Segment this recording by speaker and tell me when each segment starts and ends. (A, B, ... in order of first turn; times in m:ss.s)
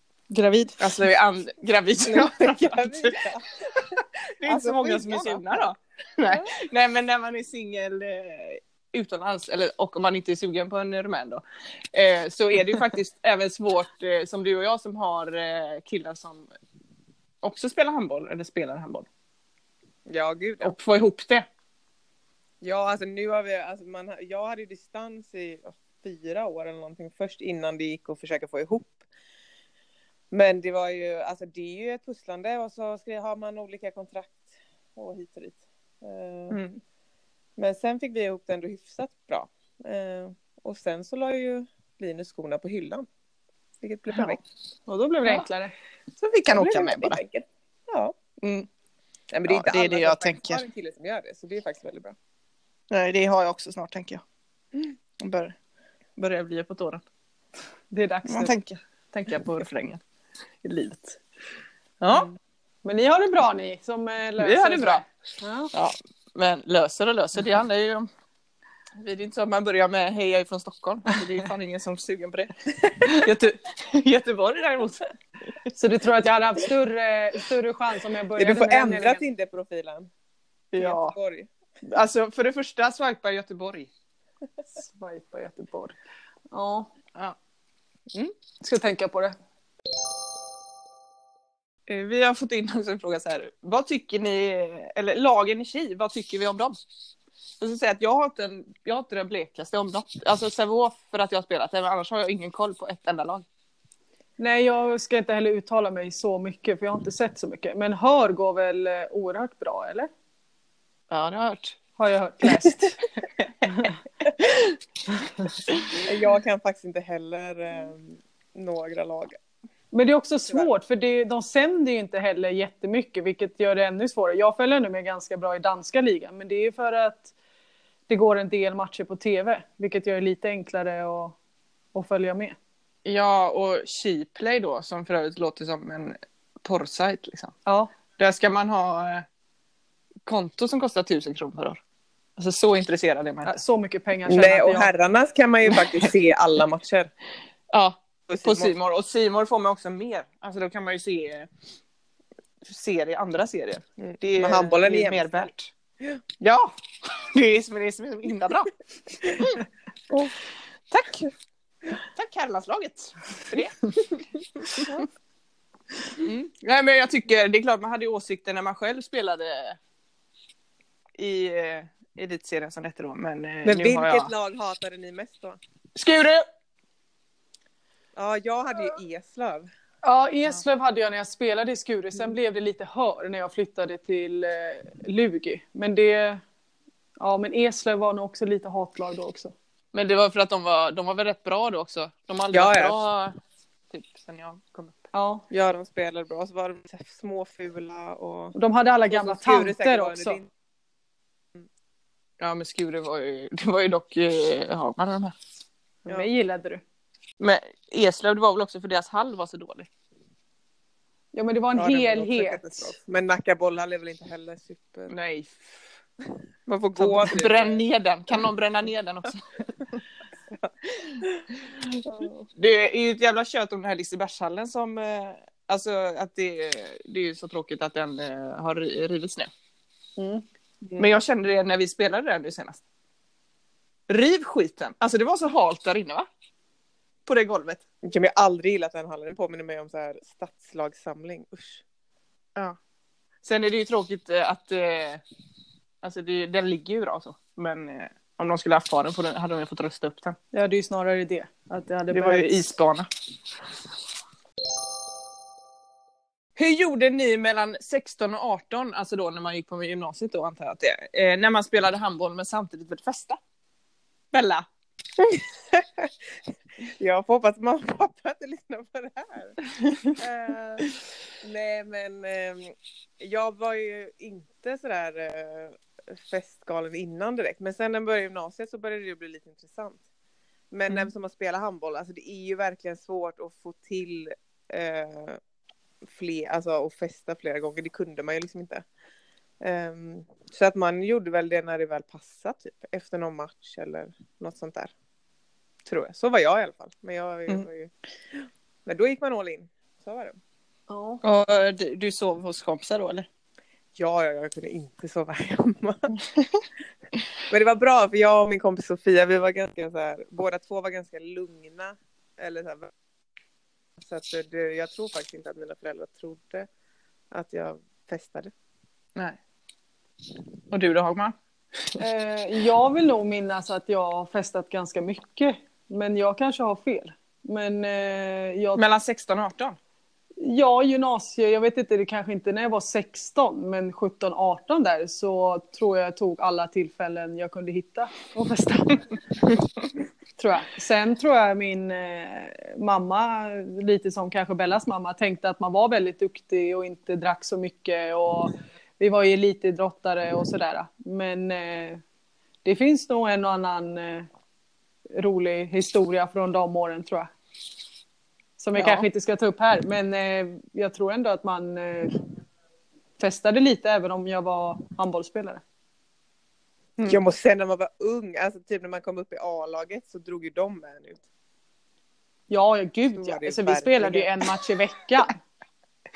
0:00.3-0:00.9 A
0:00.8-0:16.5 B
0:02.0-0:05.7 C
0:17.4-0:19.1 B
0:20.1-0:20.8 C
0:20.6-0:21.5 B
0:22.6-0:29.0 C
0:30.3-0:36.6 C
0:36.5-0:36.8 B
0:37.6-0:43.1 C
0:43.8-0:44.4 C
0:44.1-0:44.4 B
0:44.9-0:45.7 A
0:46.2-0:47.2 B
0:46.5-0:48.1 C
0:48.4-0:48.7 B
0:49.3-0:52.2 C
0:49.5-0:50.6 B
0:52.9-0:54.2 B
0:55.2-0:55.5 B
0:56.2-0:57.0 B
0:57.9-0:58.5 A
0:58.3-1:00.0 B
1:00.6-1:01.2 B
1:02.0-1:02.3 B
1:02.8-1:05.7 A
1:04.4-1:05.0 B
1:05.7-1:08.1 B
1:09.0-1:15.1 B
1:15.7-1:19.2 A
1:18.4-1:20.1 C
1:20.7-1:21.1 B
1:20.8-1:21.5 C
1:21.8-1:23.9 B
1:24.8-1:26.0 A
1:26.5-1:26.9 A
1:28.6-1:29.3 A
1:31.9-1:36.8 B
1:37.6-1:43.4 B
1:44.4-1:50.1 A
1:51.1-1:51.8 B
1:52.0-1:53.0 A
1:53.4-1:53.8 B
1:53.7-1:54.0 A
1:54.4-1:54.7 B
1:55.1-1:55.4 A
1:56.0-1:59.4 C
1:59.9-2:07.3 A
2:08.1-2:11.4 A
2:11.9-2:12.6 A
2:13.0-2:17.5 B
2:18.2-2:19.2 B
2:20.2-2:21.8 B
2:22.4-2:23.5 B
2:23.4-2:24.9 A
2:24.3-2:27.1 C
2:25.7-2:26.1 B
2:27.7-2:31.5 B
2:28.3-2:28.7 C
2:32.6-2:35.7 B
2:34.0-2:36.2 C
2:36.4-2:39.6 B
2:40.9-2:41.3 B
2:41.9-2:44.1 B
2:44.7-2:45.0 B
2:44.8-2:45.0 C
2:46.2-2:49.8 B
2:51.2-2:54.3 B
2:53.6-2:55.6 C
2:56.0-2:56.4 B
2:58.1-2:59.7 C
3:00.0-3:06.4 A
3:07.2-3:09.5 A
3:09.9-3:13.3 B
3:12.5-3:13.0 C
3:13.9-3:15.1 B
3:15.1-3:15.4 A
3:15.5-3:18.5 C
3:18.5-3:20.4 A
3:19.1-3:20.5 C
3:22.4-3:25.3 B
3:26.0-3:26.8 A
3:27.4-3:29.9 B
3:31.3-3:33.0 A
3:31.7-3:35.1 C
3:35.1-3:35.8 B
3:36.6-3:37.8 C
3:37.0-3:39.4 B
3:42.0-3:42.3 C
3:42.5-3:49.5 B
3:50.2-3:50.4 A
3:51.0-3:52.8 B
3:54.1-3:56.3 B
3:57.2-3:57.8 B
3:58.0-4:01.8 C
4:03.4-4:05.2 B
4:06.0-4:10.4 B
4:10.5-4:12.5 A
4:12.1-4:13.1 B
4:16.6-4:23.4 B
4:24.3-4:24.6 B
4:25.2-4:26.1 C
4:26.8-4:29.6 C
4:30.2-4:30.9 C
4:31.4-4:40.0 C
4:40.7-4:45.4 C
4:46.1-4:48.8 C
4:49.6-4:54.9 C
4:55.8-5:00.4 C
5:00.9-5:01.2 A
5:01.2-5:03.3 B
5:04.0-5:06.1 C
5:07.5-5:12.9 C
5:14.0-5:16.7 C
5:17.3-5:18.5 C
5:20.7-5:21.3 B
5:22.0-5:28.8 A
5:28.8-5:29.8 B
5:30.4-5:39.0 A
5:40.4-5:52.0 A
5:52.6-5:54.3 A
5:55.1-5:57.3 A
5:58.6-6:02.2 A
5:58.7-5:59.0 B
6:03.2-6:05.6 A
6:07.0-6:11.2 C
6:12.5-6:15.4 A
6:13.1-6:14.3 C